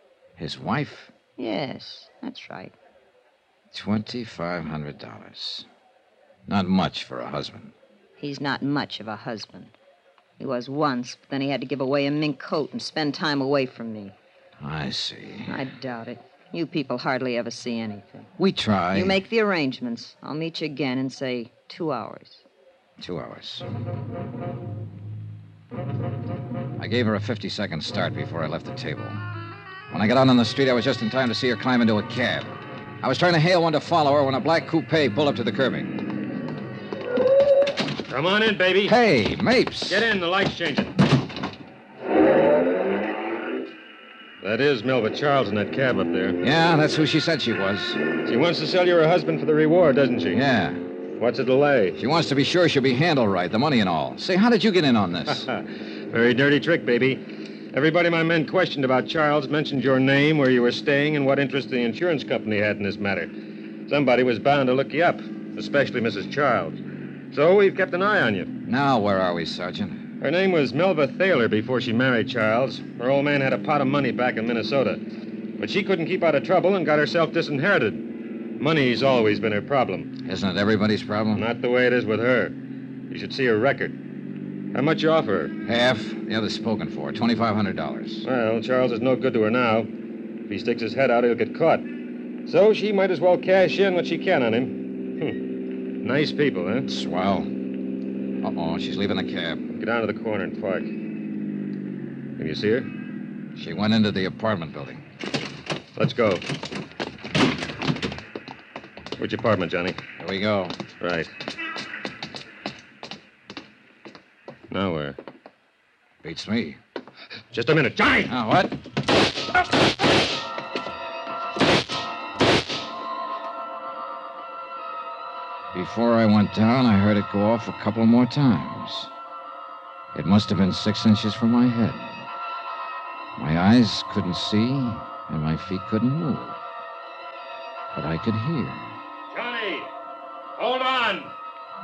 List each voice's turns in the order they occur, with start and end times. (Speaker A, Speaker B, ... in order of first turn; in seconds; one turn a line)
Speaker A: 0.4-1.1
Speaker B: 1.4-2.7
Speaker A: 3.7-5.7
Speaker A: 6.5-7.7
Speaker B: 8.2-9.7
Speaker B: 10.4-14.1
Speaker A: 14.6-15.6
Speaker B: 15.5-18.3
Speaker A: 18.4-19.2
Speaker B: 18.9-22.4
Speaker A: 23.0-23.7
Speaker A: 26.8-29.2
Speaker A: 29.9-36.0
Speaker C: 38.1-38.9
Speaker A: 38.8-40.0
Speaker C: 39.9-40.9
Speaker C: 44.4-46.4
Speaker A: 46.4-48.0
Speaker C: 48.2-50.4
Speaker A: 50.3-50.8
Speaker C: 51.2-52.0
Speaker A: 51.9-55.4
Speaker C: 55.3-57.2
Speaker C: 57.7-63.3
Speaker C: 63.9-66.8
Speaker C: 67.3-68.5
Speaker A: 68.7-70.0
Speaker C: 70.2-75.0
Speaker C: 75.6-78.0
Speaker C: 78.6-80.1
Speaker A: 80.2-81.4
Speaker C: 81.3-82.5
Speaker C: 83.1-84.0
Speaker C: 84.7-85.5
Speaker A: 85.6-88.2
Speaker C: 88.2-89.9
Speaker C: 90.5-91.9
Speaker C: 92.5-95.4
Speaker C: 96.0-96.9
Speaker A: 96.9-97.5
Speaker A: 98.4-99.6
Speaker C: 99.7-100.9
Speaker C: 102.4-102.9
Speaker A: 103.5-105.0
Speaker C: 106.0-106.4
Speaker C: 109.2-110.0
Speaker A: 110.2-110.8
Speaker C: 111.0-111.3
Speaker C: 114.7-115.2
Speaker A: 116.2-116.8
Speaker C: 117.5-118.3
Speaker A: 118.3-118.8
Speaker A: 125.7-129.1
Speaker A: 130.1-132.2
Speaker A: 133.3-136.6
Speaker A: 137.9-138.9
Speaker C: 139.3-139.9
Speaker C: 140.6-141.3